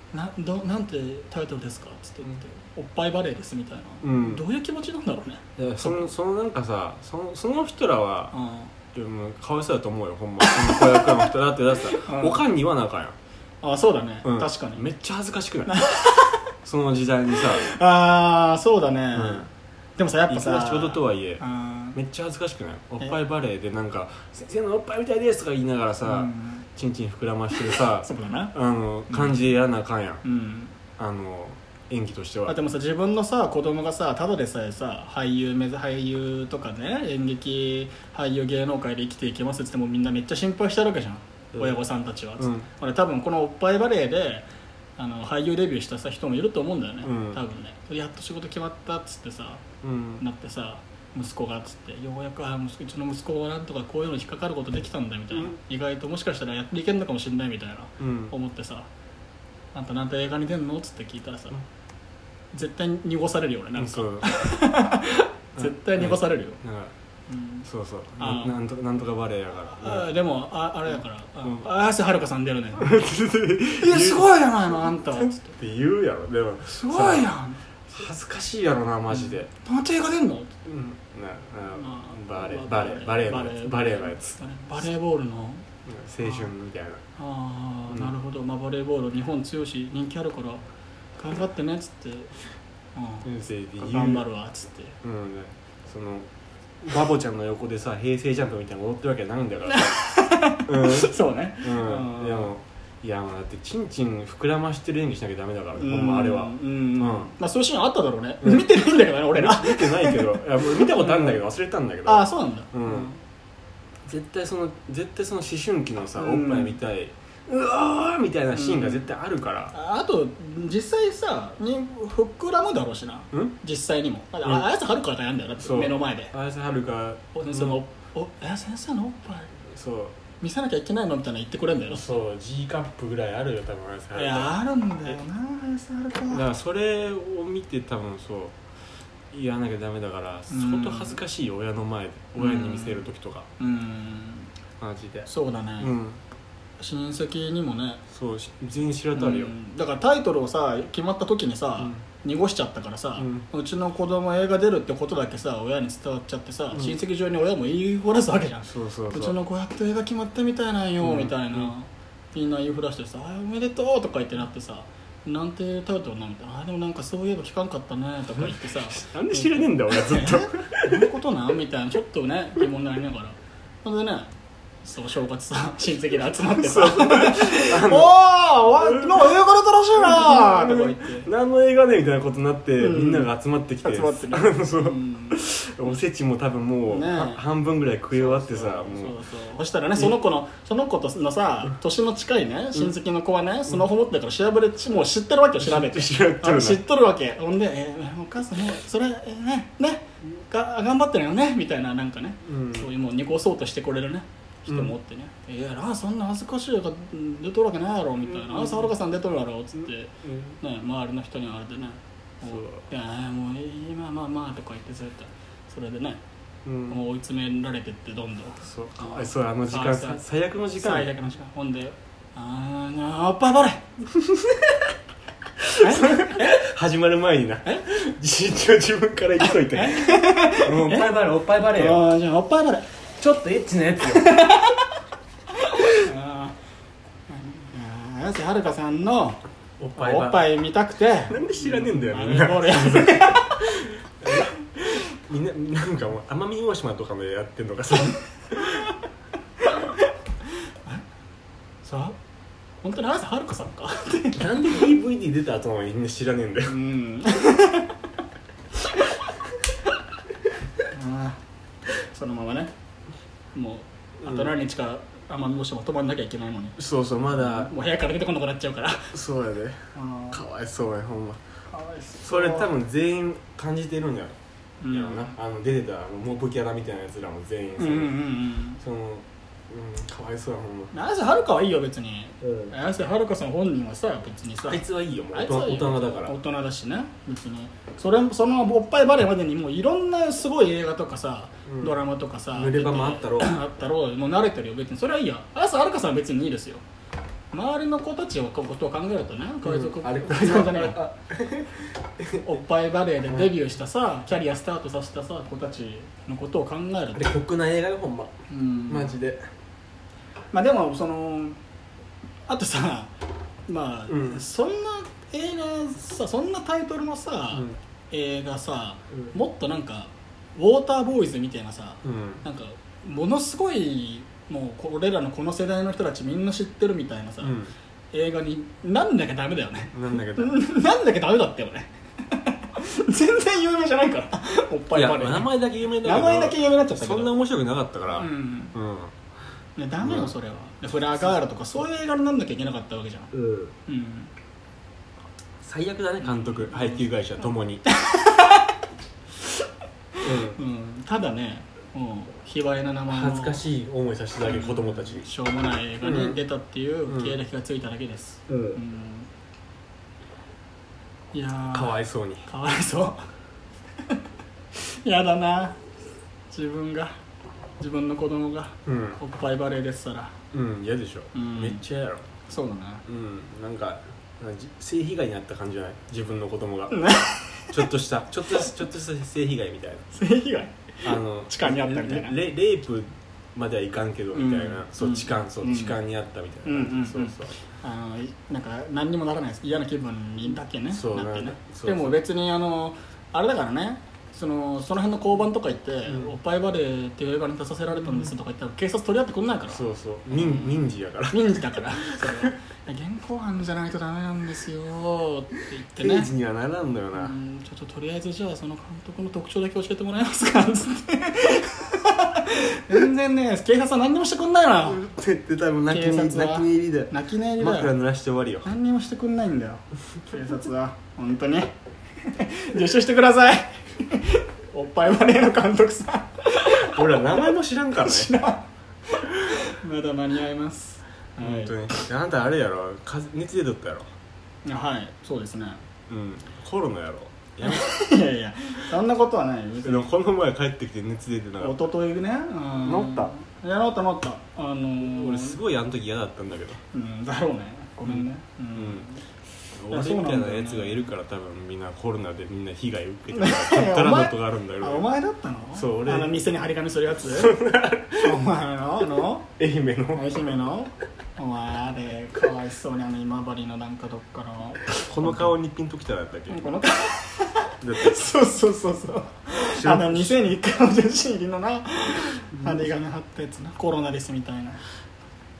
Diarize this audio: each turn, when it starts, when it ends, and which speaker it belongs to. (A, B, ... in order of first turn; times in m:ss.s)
0:00.1-0:06.0 A
0:04.0-0:04.4 B
0:05.6-0:08.3 B
0:08.3-0:08.7 A
0:08.9-0:13.2 B
0:10.4-0:11.3 A
0:11.9-0:12.4 A
0:13.6-0:14.8 A
0:14.2-0:15.8 B
0:15.7-0:16.5 A
0:16.6-0:17.7 B
0:17.4-0:22.0 A
0:19.1-0:19.5 B
0:20.3-0:21.4 B
0:21.9-0:30.2 B
0:26.0-0:26.6 A
0:27.6-0:28.5 A
0:29.1-0:29.5 A
0:30.2-0:30.7 A
0:31.0-0:32.6 B
0:32.5-0:44.4 A
0:42.4-0:42.7 B
0:45.0-0:49.6 A
0:47.0-0:47.4 B
0:49.8-0:50.2 B
0:50.2-0:58.9 A
0:58.0-0:58.3 B
0:59.7-1:01.6 A
1:02.5-1:06.6 A
1:03.8-1:04.3 B
1:05.6-1:06.9 B
1:07.3-1:07.7 A
1:07.7-1:10.1 B
1:08.2-1:08.6 A
1:09.8-1:12.9 A
1:12.8-1:17.3 B
1:13.8-1:15.5 A
1:16.7-1:17.6 A
1:17.9-1:19.5 B
1:19.1-1:20.5 A
1:20.6-1:24.8 B
1:21.8-1:25.7 A
1:25.8-1:27.0 B
1:26.2-1:26.5 A
1:27.2-1:30.6 A
1:31.2-1:32.3 A
1:32.9-1:35.0 A
1:33.2-1:34.2 B
1:35.0-1:36.3 B
1:36.8-1:40.0 B
1:39.7-1:42.5 A
1:40.6-1:47.3 B
1:45.8-1:51.4 A
1:48.4-1:48.7 B
1:49.3-1:53.1 B
1:52.0-1:53.2 A
1:54.0-1:59.7 B
1:56.2-1:56.8 A
1:58.5-1:59.1 A
1:59.7-2:06.3 A
2:05.6-2:07.8 B
2:07.3-2:09.5 A
2:09.7-2:10.2 B
2:10.4-2:12.1 A
2:11.9-2:14.6 B
2:14.1-2:16.4 A
2:16.3-2:18.5 B
2:19.3-2:23.5 B
2:20.5-2:21.2 A
2:22.4-2:23.0 A
2:23.6-2:24.5 A
2:24.8-2:26.2 B
2:25.3-2:25.9 A
2:26.8-2:28.0 A
2:28.1-2:29.5 B
2:29.1-2:54.3 A
2:31.8-2:32.0 B
2:33.2-2:33.4 B
2:38.6-2:39.4 B
2:41.0-2:41.7 B
2:48.3-2:51.0 B
2:54.8-3:01.3 A
2:56.6-2:58.2 B
2:58.8-2:59.3 B
3:00.0-3:09.2 B
3:02.8-3:05.5 A
3:06.9-3:07.4 A
3:08.1-3:36.2 A
3:15.6-3:16.8 B
3:22.4-3:22.9 B
3:24.7-3:24.9 B
3:28.2-3:28.9 B
3:30.2-3:30.6 B
3:32.4-3:32.8 B
3:36.6-3:37.0 B
3:36.9-3:40.2 A
3:38.6-3:41.1 B
3:40.8-3:43.9 A
3:45.6-3:46.6 A
3:45.8-3:52.1 B
3:47.6-3:47.9 A
3:49.7-3:52.9 A
3:53.2-3:54.3 B
3:54.0-3:54.8 A
3:55.6-3:56.6 A
3:57.3-3:59.4 A
3:59.8-4:00.5 B
4:00.0-4:03.8 A
4:01.3-4:08.9 B
4:09.7-4:10.1 A
4:11.8-4:12.2 A
4:12.8-4:14.8 A
4:14.4-4:16.8 B
4:16.6-4:17.9 A
4:20.9-4:22.7 A
4:23.5-4:26.8 A
4:24.2-4:24.5 B
4:26.8-4:27.7 B
4:27.3-4:29.2 A
4:29.1-4:31.4 B
4:29.9-4:30.4 A
4:31.7-4:32.7 A
4:32.2-4:34.4 B
4:34.8-4:35.4 A
4:34.9-4:38.2 B
4:37.8-4:38.8 A
4:38.8-4:40.9 B
4:40.9-4:56.8 A
4:42.4-4:42.7 B
4:44.7-4:46.3 B
4:51.7-4:52.0 B
4:52.5-4:53.6 B
4:57.5-5:01.0 A
4:59.6-5:02.5 B
5:02.4-5:07.3 A
5:03.2-5:03.5 B
5:07.1-5:08.3 B
5:08.5-5:09.2 A
5:08.9-5:09.4 B
5:10.5-5:11.6 A
5:12.5-5:13.1 A
5:13.7-5:27.6 A
5:14.1-5:14.4 B
5:22.0-5:22.4 B
5:27.4-5:27.7 B
5:28.1-5:37.4 A
5:29.9-5:30.6 B
5:34.9-5:39.1 B
5:38.1-5:38.7 A
5:39.8-5:43.3 A
5:40.0-5:40.3 B
5:43.3-5:43.7 B
5:43.9-5:44.3 A
5:45.6-5:47.8 B
5:46.2-5:47.0 A
5:47.9-5:48.7 A
5:50.2-5:53.6 A
5:50.2-5:50.6 B
5:53.1-5:55.3 B
5:54.4-5:59.3 A
5:56.0-5:56.4 B
5:57.1-5:57.4 B
5:58.5-5:58.8 B
6:01.3-6:03.2 A
6:01.7-6:02.5 B
6:04.7-6:05.8 A
6:06.5-6:07.1 A
6:07.8-6:10.4 A
6:08.8-6:09.2 B
6:10.5-6:12.2 B
6:11.3-6:11.8 A
6:12.5-6:13.0 A
6:13.0-6:17.0 B
6:16.9-6:17.9 A
6:17.7-6:20.0 B
6:20.1-6:22.4 A
6:21.0-6:27.5 B
6:24.3-6:26.0 A
6:26.6-6:46.3 A
6:30.9-6:32.2 B
6:36.0-6:36.4 B
6:39.7-6:42.5 B
6:45.9-6:47.3 B
6:47.1-6:55.0 A
6:54.8-6:58.7 B
6:55.9-6:58.0 A
6:58.6-7:12.0 A
7:06.8-7:08.3 B
7:11.4-7:14.1 B
7:14.6-7:15.8 A
7:16.1-7:18.0 B
7:17.6-7:20.1 A
7:19.8-7:21.8 B
7:21.6-7:25.6 A
7:22.8-7:23.3 B
7:25.0-7:26.8 B
7:26.9-7:29.2 A
7:28.0-7:29.0 B
7:29.7-7:35.0 B
7:29.9-7:31.1 A
7:33.3-7:37.5 A
7:35.7-7:36.4 B
7:37.3-7:38.4 B
7:38.2-7:39.5 A
7:39.6-7:40.4 B
7:40.1-7:45.5 A
7:45.0-7:46.6 B
7:46.5-7:54.8 A
7:47.8-7:48.2 B
7:49.7-7:50.4 B
7:52.5-7:52.9 B